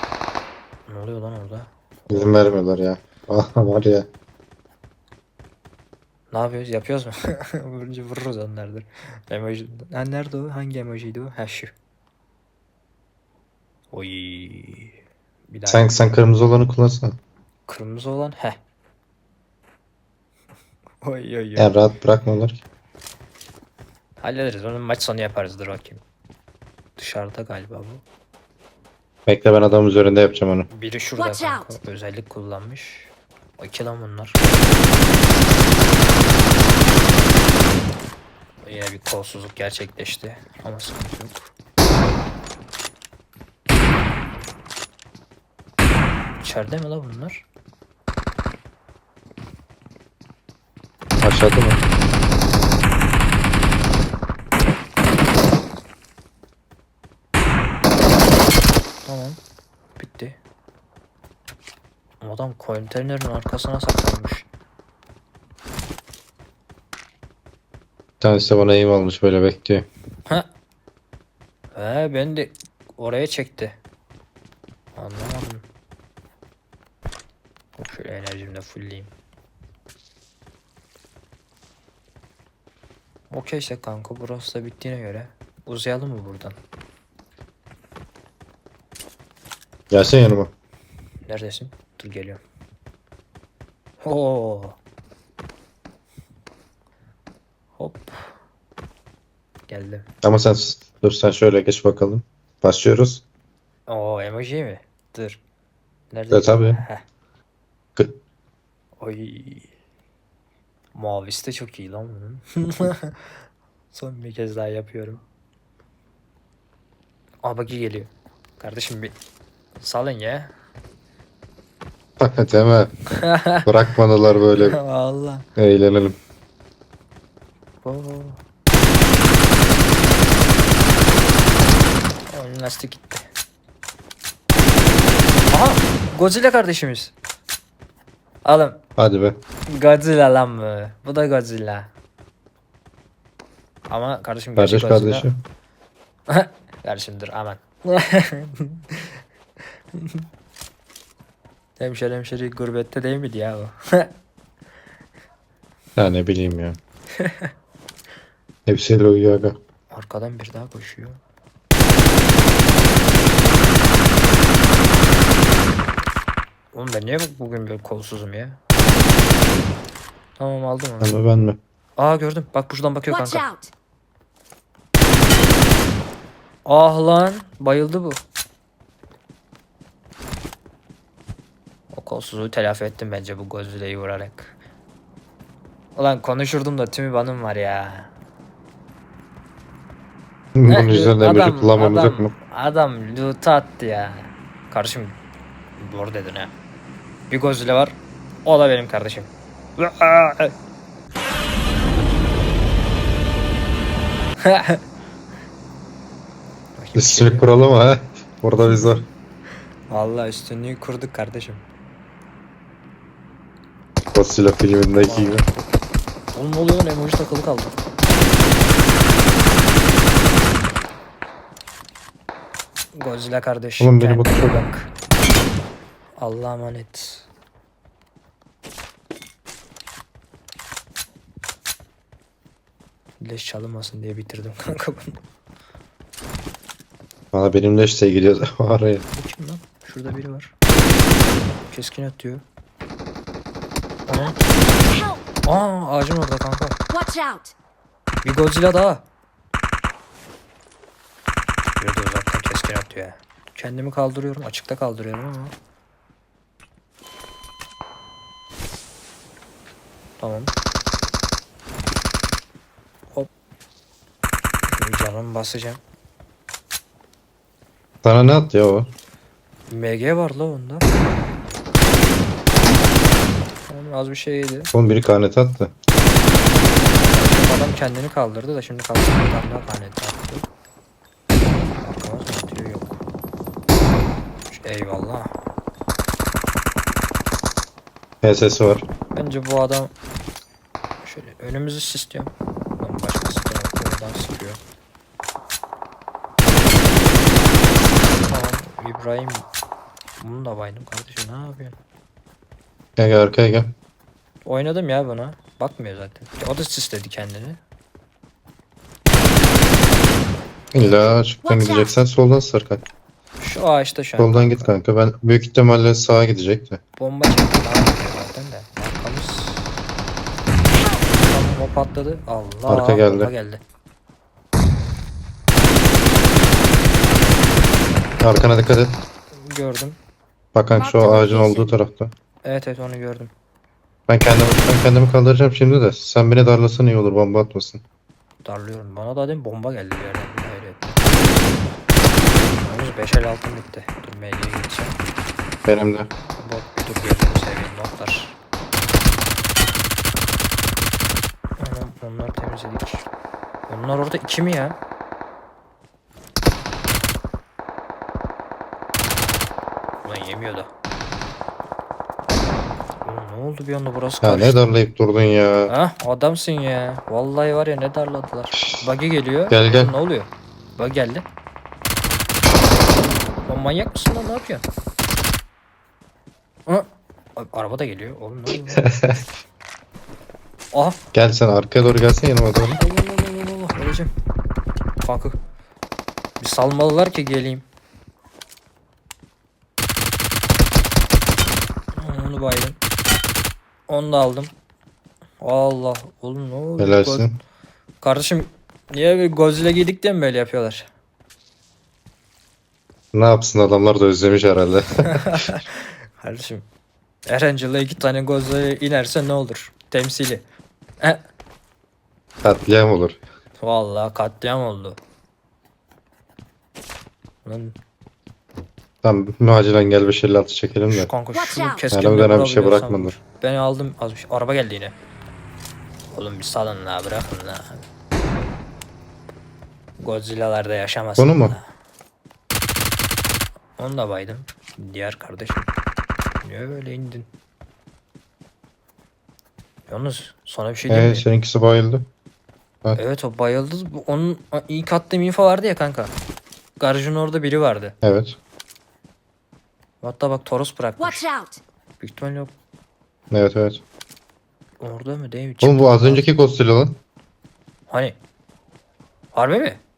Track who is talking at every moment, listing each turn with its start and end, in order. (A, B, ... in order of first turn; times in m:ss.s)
0:00.9-0:02.4 A
0:02.1-0:04.1 B
0:06.3-0:11.7 A
0:13.9-0:15.0 A
0:15.5-0:16.0 A
0:15.7-0:17.2 B
0:17.7-0:18.6 A
0:21.0-0:21.8 A
0:21.6-0:22.6 B
0:24.2-0:26.0 A
0:27.0-0:28.0 A
0:29.3-0:30.7 B
0:30.7-0:34.4 A
0:31.2-0:31.7 C
0:38.6-0:41.5 A
0:46.4-0:47.4 A
0:51.2-0:51.8 B
0:59.1-0:59.4 A
1:00.0-1:00.4 A
1:02.2-1:04.5 A
1:08.2-1:09.9 B
1:11.8-1:13.8 A
1:15.0-1:15.6 A
1:17.8-1:19.1 A
1:23.3-1:26.6 A
1:29.9-1:30.5 B
1:31.3-1:32.4 A
1:34.0-1:34.8 A
1:37.8-1:38.3 A
1:39.7-1:40.0 A
1:40.2-1:43.2 B
1:43.9-1:45.4 A
1:46.1-1:47.0 A
1:46.3-1:46.8 B
1:49.0-1:49.7 A
1:51.0-1:53.4 A
1:53.9-1:55.2 A
1:57.4-1:59.2 A
1:59.8-2:00.5 A
2:02.2-2:02.9 B
2:03.1-2:03.7 A
2:03.6-2:04.8 B
2:04.5-2:05.5 A
2:05.6-2:06.2 B
2:07.8-2:08.4 A
2:12.3-2:13.2 A
2:15.5-2:17.1 A
2:18.4-2:18.8 A
2:19.0-2:19.4 B
2:19.7-2:21.9 A
2:23.9-2:25.3 A
2:24.6-2:25.4 B
2:26.3-2:29.2 A
2:29.9-2:30.2 A
2:31.8-2:34.1 A
2:36.0-2:36.8 B
2:37.2-2:37.5 A
2:38.7-2:39.6 B
2:39.9-2:41.2 A
2:46.7-2:48.6 A
2:50.4-2:51.2 A
2:51.0-2:51.6 B
2:52.0-2:53.4 A
2:53.1-2:53.7 C
2:56.7-2:58.2 A
3:01.9-3:04.6 A
3:06.0-3:08.1 A
3:10.6-3:12.3 B
3:10.7-3:15.2 A
3:15.8-3:16.5 A
3:17.3-3:20.6 A
3:24.4-3:24.8 A
3:26.8-3:27.5 A
3:27.0-3:29.1 B
3:29.9-3:31.6 A
3:34.1-3:35.5 B
3:34.9-3:35.5 A
3:36.4-3:37.8 A
3:42.9-3:44.9 A
3:43.8-3:44.6 B
3:46.2-3:47.3 A
3:53.2-3:55.2 A
3:57.3-3:59.0 B
3:59.1-4:00.5 A
4:01.7-4:02.4 A
4:04.1-4:04.4 A
4:04.2-4:05.2 C
4:05.4-4:06.8 A
4:06.9-4:07.6 C
4:08.2-4:09.0 A
4:11.8-4:15.5 A
4:20.2-4:20.5 A
4:24.7-4:25.8 A
4:28.0-4:28.9 B
4:29.7-4:30.9 A
4:33.7-4:34.7 A
4:34.7-4:35.7 B
4:36.9-4:40.4 A
4:41.8-4:42.9 A
4:44.5-4:45.3 A
4:48.2-4:48.8 B
4:49.1-4:49.9 A
4:51.0-4:54.6 A
4:58.2-4:59.5 A
5:00.2-5:01.8 A
5:03.0-5:03.8 B
5:04.4-5:07.6 A
5:10.7-5:12.8 B
5:11.4-5:12.0 C
5:13.4-5:14.7 A
5:14.2-5:16.8 B
5:17.0-5:19.7 A
5:20.8-5:21.1 C
5:21.1-5:23.6 A
5:22.7-5:23.3 B
5:28.2-5:29.0 B
5:29.3-5:30.0 A
5:30.5-5:32.1 B
5:30.7-5:31.8 C
5:32.4-5:33.3 A
5:34.1-5:37.8 B
5:38.4-5:41.1 A
5:42.6-5:45.0 A
5:45.7-5:46.1 B
5:46.4-5:48.4 A
5:51.6-5:53.1 A
5:53.7-5:54.8 A
6:00.0-6:00.7 A
6:03.0-6:04.6 A
6:04.2-6:05.7 B
6:05.7-6:11.2 A
6:09.5-6:09.9 B
6:13.4-6:14.6 A
6:16.7-6:19.0 A
6:18.7-6:19.2 B
6:20.7-6:21.0 A
6:21.1-6:22.8 B
6:22.6-6:24.1 A
6:25.0-6:25.4 A
6:26.4-6:27.6 A
6:32.0-6:32.8 A
6:33.9-6:34.5 A
6:35.4-6:37.3 A
6:36.8-6:37.4 B
6:38.0-6:40.9 A
6:43.1-6:45.6 B
6:45.0-6:46.7 A
6:47.3-6:50.4 A
6:52.4-6:53.2 B
6:53.6-6:55.0 A
6:57.4-6:57.8 A
6:59.0-7:01.1 B
7:00.9-7:04.9 A
7:01.3-7:01.8 C
7:01.9-7:03.1 B
7:06.1-7:07.9 A
7:10.0-7:11.6 A
7:11.2-7:11.6 B
7:13.8-7:15.7 A
7:16.4-7:17.3 A
7:19.9-7:21.2 A
7:20.9-7:22.1 B
7:23.0-7:26.1 A
7:26.8-7:28.0 A
7:28.0-7:28.4 B
7:30.0-7:31.2 A
7:31.0-7:31.6 C
7:32.0-7:32.5 A
7:33.3-7:33.8 B
7:34.8-7:36.3 A
7:35.6-7:37.0 B
7:37.9-7:38.2 A
7:39.3-7:39.8 A